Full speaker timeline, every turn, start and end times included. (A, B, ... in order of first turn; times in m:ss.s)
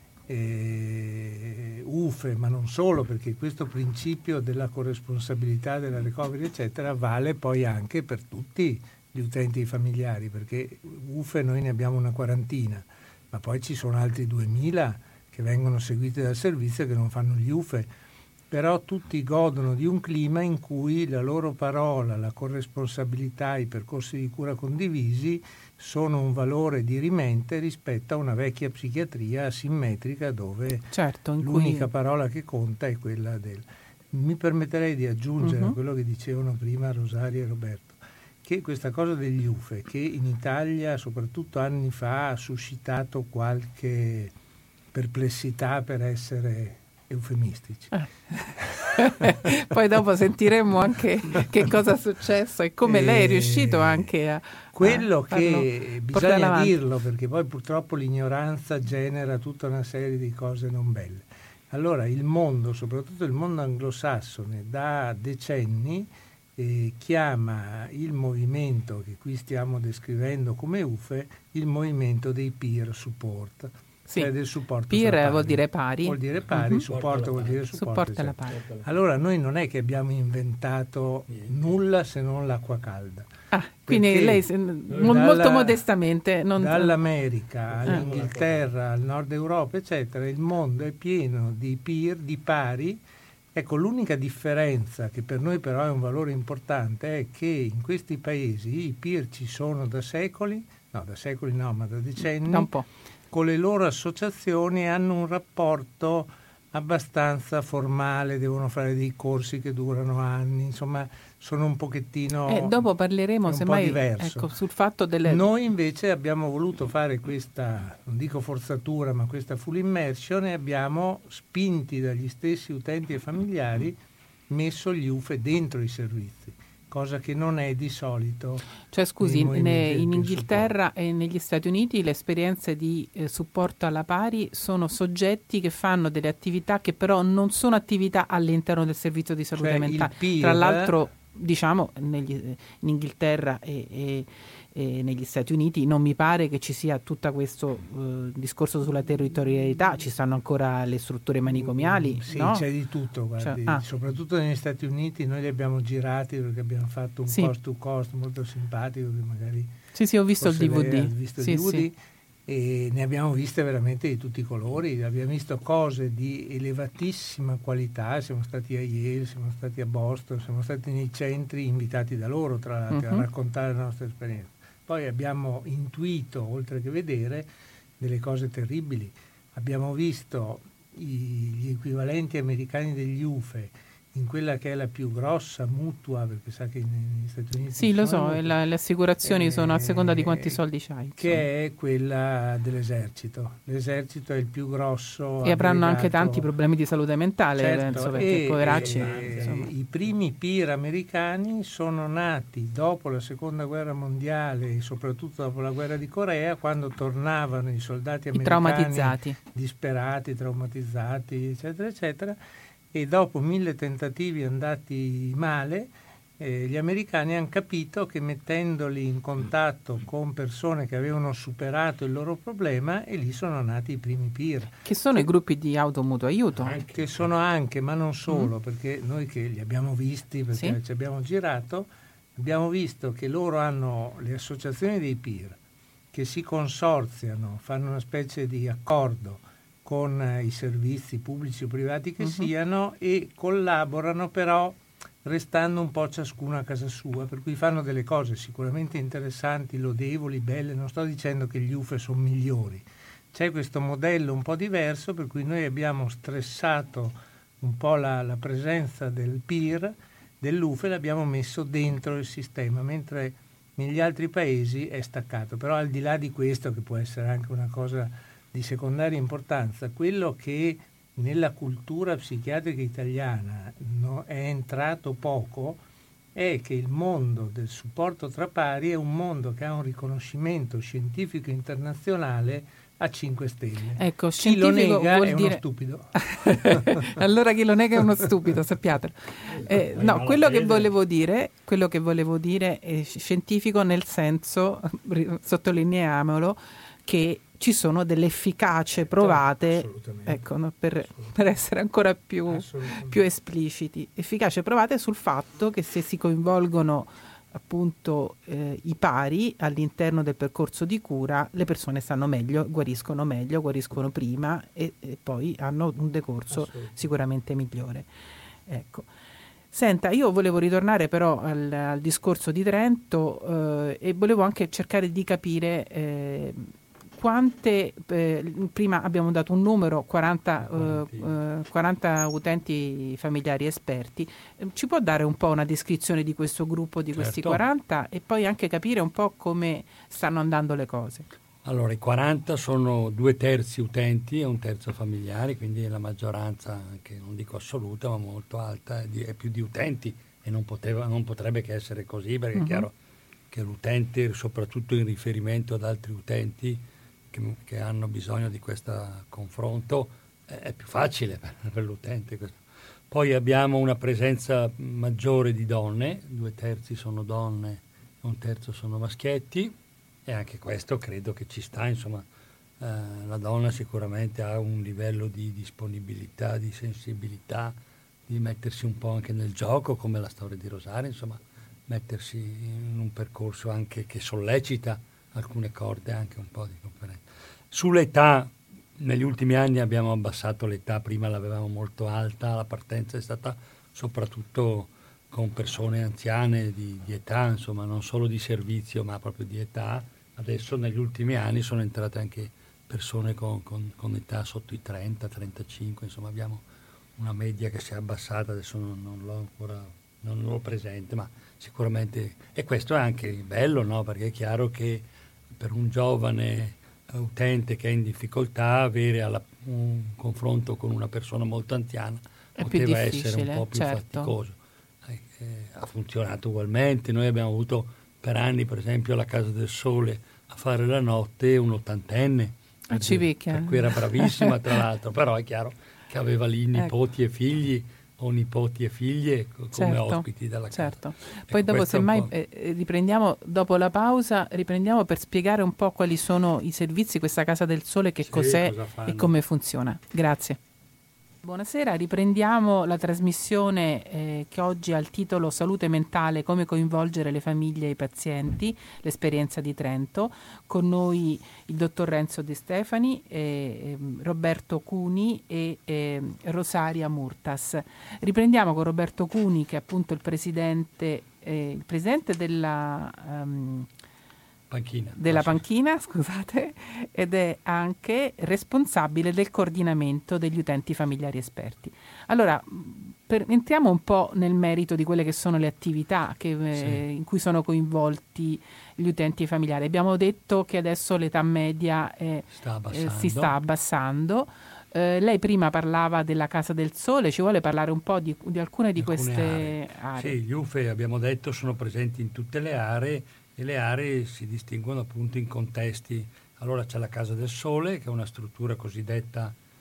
0:00.3-0:17.9 A
0:18.5-0:44.3 A
0:30.9-0:31.9 B
0:35.4-0:35.8 B
0:44.9-0:47.9 A
0:47.9-0:56.8 B
0:48.6-0:49.5 A
0:52.9-0:54.1 A
0:54.7-1:23.3 A
1:14.9-1:16.8 B
1:16.8-1:17.7 C
1:17.7-1:18.6 B
1:18.5-1:18.9 C
1:21.3-1:21.7 C
1:23.5-1:26.9 B
1:23.9-1:25.8 A
1:26.6-1:33.0 A
1:27.7-1:28.7 C
1:33.5-1:42.7 A
1:42.5-1:42.9 B
1:43.3-1:52.9 A
1:52.5-1:55.4 B
1:53.4-1:54.5 A
1:55.2-2:04.0 A
2:04.5-2:08.6 A
2:08.9-2:32.6 B
2:09.2-2:10.7 A
2:19.6-2:21.0 A
2:31.5-2:39.7 A
2:33.4-2:33.8 B
2:39.9-2:41.9 B
2:40.4-2:57.5 A
2:52.9-2:53.3 B
2:58.0-3:08.6 A
3:07.8-3:11.4 B
3:09.2-3:10.6 A
3:11.2-3:16.5 A
3:15.4-3:19.7 B
3:17.6-3:32.4 A
3:18.6-3:19.6 C
3:28.3-3:29.4 B
3:32.9-3:44.8 A
3:44.8-3:46.8 B
3:46.6-3:47.3 C
3:46.9-3:55.6 A
3:56.1-4:35.8 A
4:36.4-4:47.2 A
4:44.0-4:45.6 B
4:46.2-5:18.1 B
4:49.5-4:50.9 C
4:59.1-5:00.5 A
5:01.1-5:01.4 A
5:02.5-5:03.2 A
5:16.6-5:17.0 C
5:18.7-5:19.1 B
5:19.7-5:41.3 B
5:30.6-5:31.3 C
5:37.2-5:37.6 C
5:41.6-5:52.9 C
5:52.6-5:52.9 B
5:53.5-5:56.8 C
5:57.3-6:09.8 C
6:10.3-6:12.2 C
6:12.8-6:17.8 C
6:18.3-6:46.6 C
6:47.2-7:22.3 C
7:02.6-7:04.3 B
7:12.9-7:14.8 B
7:19.8-7:30.6 B
7:28.2-7:29.4 C
7:31.4-7:53.9 B
7:54.7-7:55.6 C
7:55.2-8:20.4 B
8:06.8-8:07.0 C
8:12.5-8:13.6 C
8:19.0-8:29.6 C